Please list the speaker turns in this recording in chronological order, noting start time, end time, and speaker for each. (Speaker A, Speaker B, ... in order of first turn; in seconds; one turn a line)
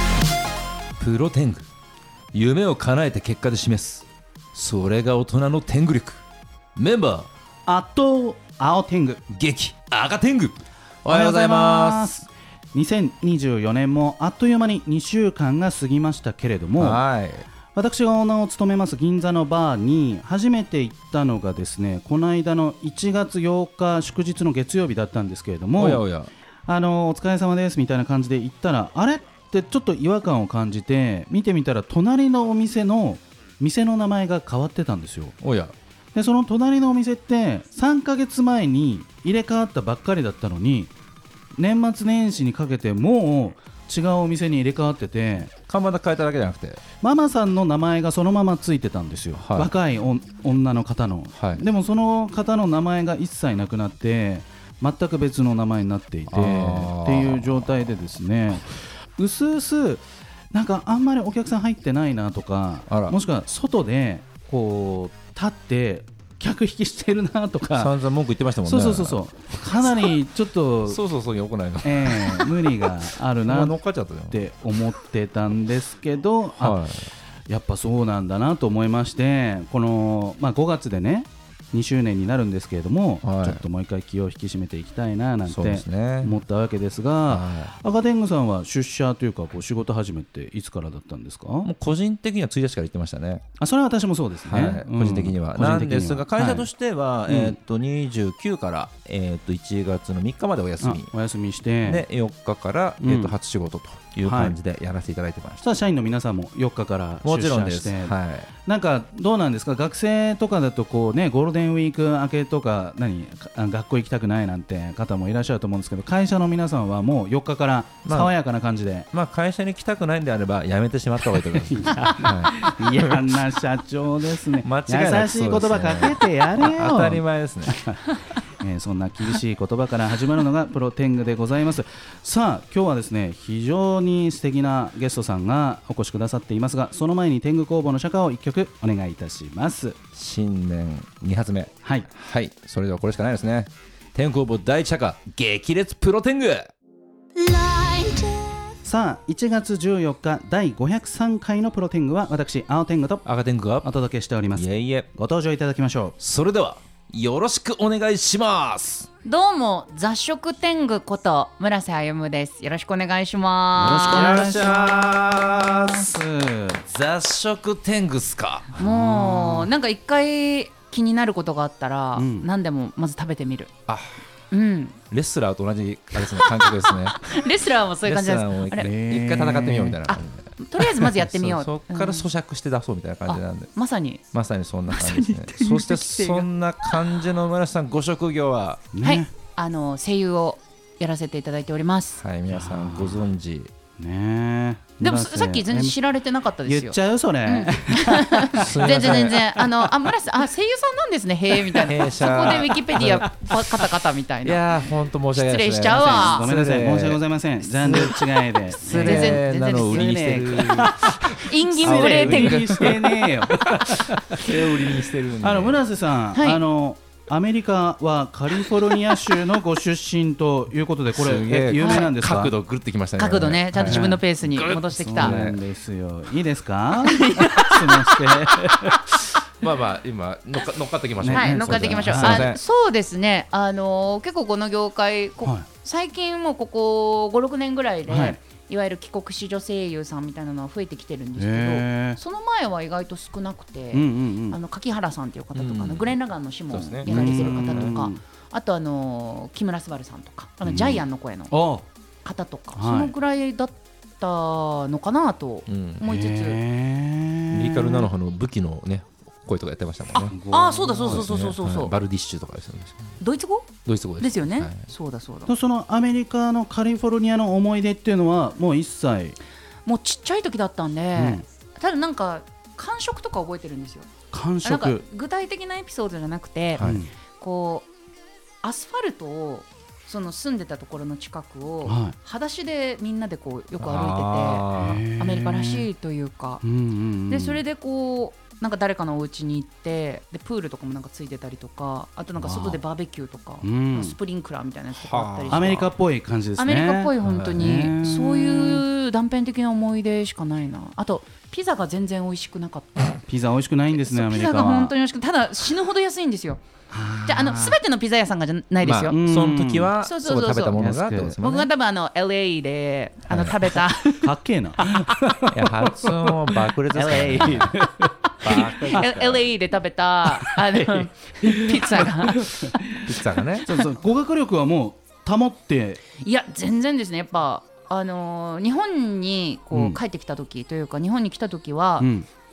Speaker A: 1.0-1.7
Speaker A: 2.3-6.2
Speaker A: 6.8-7.3
Speaker B: 7.7-9.2
Speaker A: 9.3-12.1
Speaker B: 11.1-17.0
Speaker A: 16.8-17.5
Speaker B: 17.7-26.0
Speaker A: 25.8-26.3
Speaker B: 26.7-35.4
Speaker A: 35.4-35.7
Speaker B: 36.1-40.9
Speaker B: 41.5-45.5
Speaker A: 45.7-46.8
Speaker B: 47.0-67.9
Speaker A: 49.3-49.7
Speaker A: 51.3-51.6
Speaker A: 56.3-57.6
Speaker A: 62.9-63.1
Speaker A: 67.7-69.2
Speaker B: 68.6-71.0
Speaker A: 70.8-72.9
Speaker B: 71.8-91.7
Speaker A: 73.4-74.4
Speaker A: 76.6-77.1
Speaker A: 83.2-83.6
Speaker A: 85.5-86.3
Speaker A: 87.3-87.7
Speaker A: 91.6-93.4
Speaker B: 93.6-96.7
Speaker A: 94.4-101.1
Speaker B: 97.2-97.6
Speaker B: 100.8-102.0
Speaker A: 101.8-105.6
Speaker B: 103.0-103.4
Speaker B: 104.2-104.6
Speaker B: 105.6-119.1
Speaker A: 107.2-108.5
Speaker A: 118.0-118.3
Speaker A: 119.1-123.2
Speaker B: 121.5-128.0
Speaker A: 124.6-127.8
Speaker B: 128.6-140.0
Speaker A: 140.1-146.7
Speaker B: 141.8-142.1
Speaker C: 147.4-148.3
Speaker B: 148.8-153.2
Speaker A: 153.2-153.9
Speaker B: 153.8-156.2
Speaker A: 154.5-155.1
Speaker A: 156.2-159.1
Speaker C: 159.2-164.4
Speaker B: 163.8-166.8
Speaker A: 164.1-166.1
Speaker A: 166.8-168.8
Speaker C: 168.8-173.7
Speaker B: 168.8-169.7
Speaker B: 172.1-172.5
Speaker A: 173.9-174.2
Speaker C: 174.5-175.0
Speaker A: 175.1-177.2
Speaker C: 176.3-178.9
Speaker A: 178.0-183.7
Speaker B: 178.8-180.1
Speaker C: 180.1-182.3
Speaker C: 183.2-184.2
Speaker A: 184.3-188.8
Speaker C: 184.9-187.0
Speaker B: 188.9-189.3
Speaker C: 189.0-192.2
Speaker A: 192.2-193.7
Speaker B: 192.5-193.2
Speaker B: 194.0-196.0
Speaker C: 195.0-204.7
Speaker B: 196.6-199.9
Speaker A: 198.6-199.4
Speaker A: 201.8-207.2
Speaker C: 205.3-206.5
Speaker B: 205.9-210.9
Speaker A: 207.8-215.8
Speaker C: 208.8-213.2
Speaker B: 211.7-222.5
Speaker C: 216.3-216.6
Speaker A: 221.1-225.6
Speaker C: 221.7-222.1
Speaker C: 223.2-225.4
Speaker B: 223.8-224.2
Speaker B: 224.9-229.1
Speaker C: 227.0-229.1
Speaker A: 229.6-232.6
Speaker B: 231.2-232.5
Speaker C: 231.3-251.5
Speaker B: 238.1-238.4
Speaker B: 241.4-242.2
Speaker B: 243.9-244.6
Speaker A: 245.5-246.1
Speaker A: 246.7-248.0
Speaker B: 247.0-248.2
Speaker B: 250.6-251.8
Speaker C: 252.2-256.6
Speaker B: 252.7-253.1
Speaker A: 255.7-256.0
Speaker B: 256.0-258.1
Speaker A: 257.5-260.3
Speaker B: 260.1-261.3
Speaker C: 260.5-261.9
Speaker A: 261.0-263.2
Speaker C: 263.2-265.5
Speaker A: 263.8-264.9
Speaker B: 265.4-269.4
Speaker C: 269.8-274.1
Speaker B: 271.1-271.4
Speaker B: 274.3-275.1
Speaker C: 274.6-277.9
Speaker A: 276.8-277.0
Speaker B: 276.8-277.1
Speaker C: 278.6-284.6
Speaker B: 281.8-282.1
Speaker A: 283.8-285.0
Speaker B: 284.7-285.9
Speaker C: 285.2-286.6
Speaker B: 286.6-287.6
Speaker C: 287.3-295.9
Speaker B: 292.4-292.8
Speaker B: 293.6-294.2
Speaker A: 294.9-295.9
Speaker B: 295.5-298.8
Speaker C: 296.6-303.2
Speaker A: 297.2-297.9
Speaker B: 303.3-304.9
Speaker C: 303.9-306.6
Speaker B: 306.9-307.3
Speaker A: 307.0-307.7
Speaker C: 307.2-309.1
Speaker A: 308.8-311.7
Speaker B: 309.1-309.9
Speaker C: 310.0-310.8
Speaker B: 310.7-311.4
Speaker C: 311.4-315.2
Speaker A: 313.3-313.8
Speaker B: 314.2-319.1
Speaker A: 315.5-317.8
Speaker A: 318.4-319.5
Speaker C: 318.5-322.8
Speaker B: 320.3-326.0
Speaker A: 323.0-323.7
Speaker C: 326.1-332.1
Speaker B: 329.7-330.0
Speaker B: 332.0-332.2